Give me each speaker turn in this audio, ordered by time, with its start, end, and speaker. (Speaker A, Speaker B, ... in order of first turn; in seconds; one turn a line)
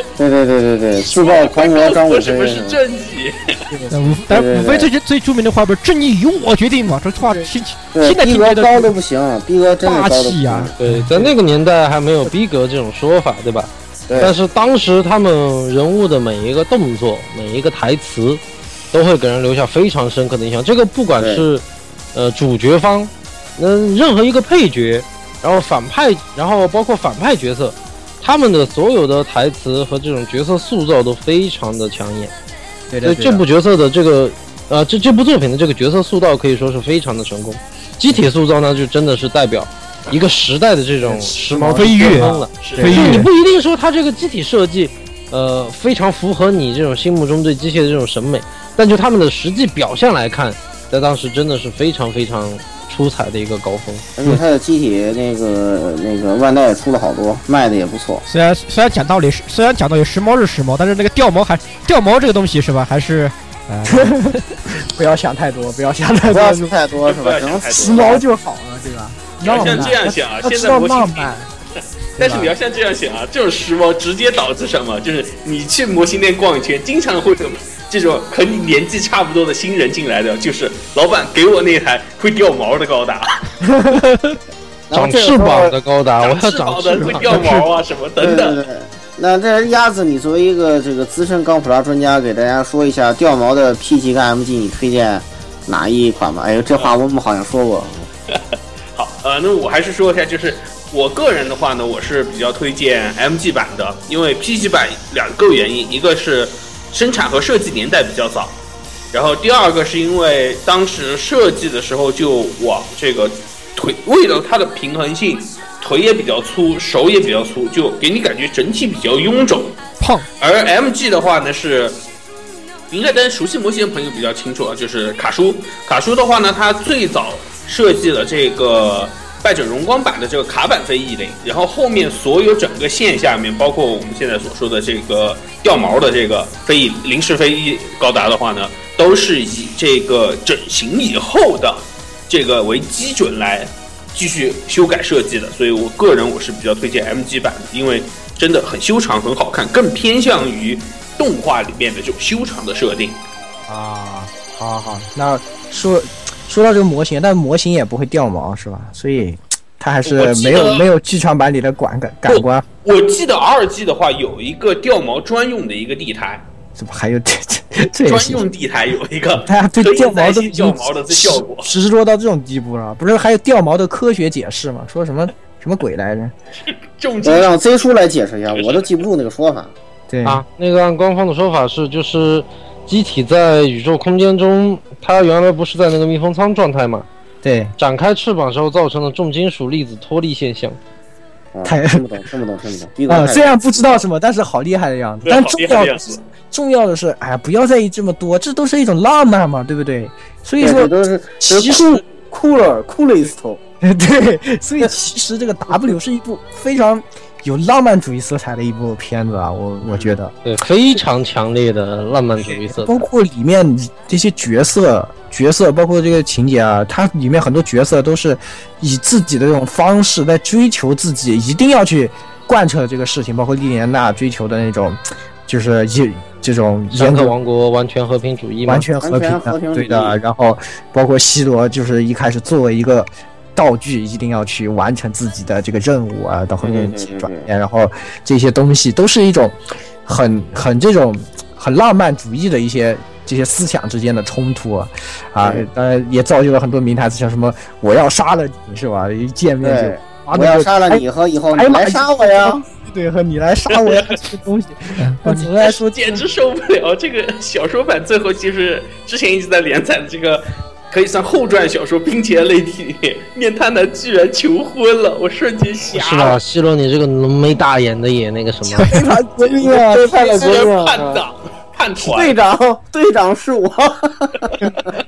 Speaker A: 0.2-2.8
Speaker B: 1.0-3.6
Speaker C: 3.7-4.2
Speaker D: 3.9-8.9
Speaker A: 4.3-4.9
Speaker C: 7.2-7.5
Speaker A: 7.9-10.7
Speaker D: 9.8-11.3
Speaker E: 10.8-32.3
Speaker A: 14.1-14.3
Speaker A: 21.2-21.4
Speaker C: 32.9-33.4
Speaker E: 33.0-54.0
Speaker C: 41.0-42.5
Speaker D: 41.7-43.3
Speaker B: 42.6-43.0
Speaker A: 54.2-58.2
Speaker D: 58.3-64.4
Speaker C: 63.9-66.8
Speaker A: 66.3-68.2
Speaker B: 67.0-68.2
Speaker C: 67.7-71.5
Speaker B: 69.4-71.3
Speaker B: 72.2-83.3
Speaker C: 72.2-72.5
Speaker C: 83.7-84.0
Speaker A: 84.9-85.8
Speaker E: 84.9-87.3
Speaker B: 86.2-88.6
Speaker D: 87.3-87.6
Speaker A: 88.2-98.1
Speaker B: 98.9-108.6
Speaker B: 109.1-119.8
Speaker D: 120.0-120.3
Speaker B: 120.4-122.0
Speaker B: 122.9-153.2
Speaker C: 153.7-162.7
Speaker B: 160.1-160.9
Speaker B: 162.3-166.4
Speaker C: 166.8-168.4
Speaker B: 168.0-171.7
Speaker C: 169.4-176.3
Speaker B: 176.7-177.5
Speaker A: 177.2-179.7
Speaker B: 178.5-179.0
Speaker C: 180.1-180.4
Speaker E: 180.2-187.1
Speaker C: 187.4-187.7
Speaker E: 187.8-190.8
Speaker A: 191.5-193.5
Speaker C: 191.7-192.1
Speaker C: 193.1-202.0
Speaker B: 195.3-196.2
Speaker A: 200.6-203.6
Speaker C: 203.8-210.3
Speaker E: 210.4-213.0
Speaker C: 212.4-227.3
Speaker E: 226.9-228.9
Speaker C: 228.7-256.2
Speaker A: 229.0-230.2
Speaker A: 236.6-237.5
Speaker A: 249.6-252.6
Speaker B: 253.8-254.0
Speaker D: 255.0-255.5
Speaker B: 255.6-266.4
Speaker E: 265.9-268.9
Speaker D: 268.8-269.1
Speaker C: 268.8-270.6
Speaker A: 269.5-271.2
Speaker B: 270.1-272.4
Speaker A: 272.0-274.9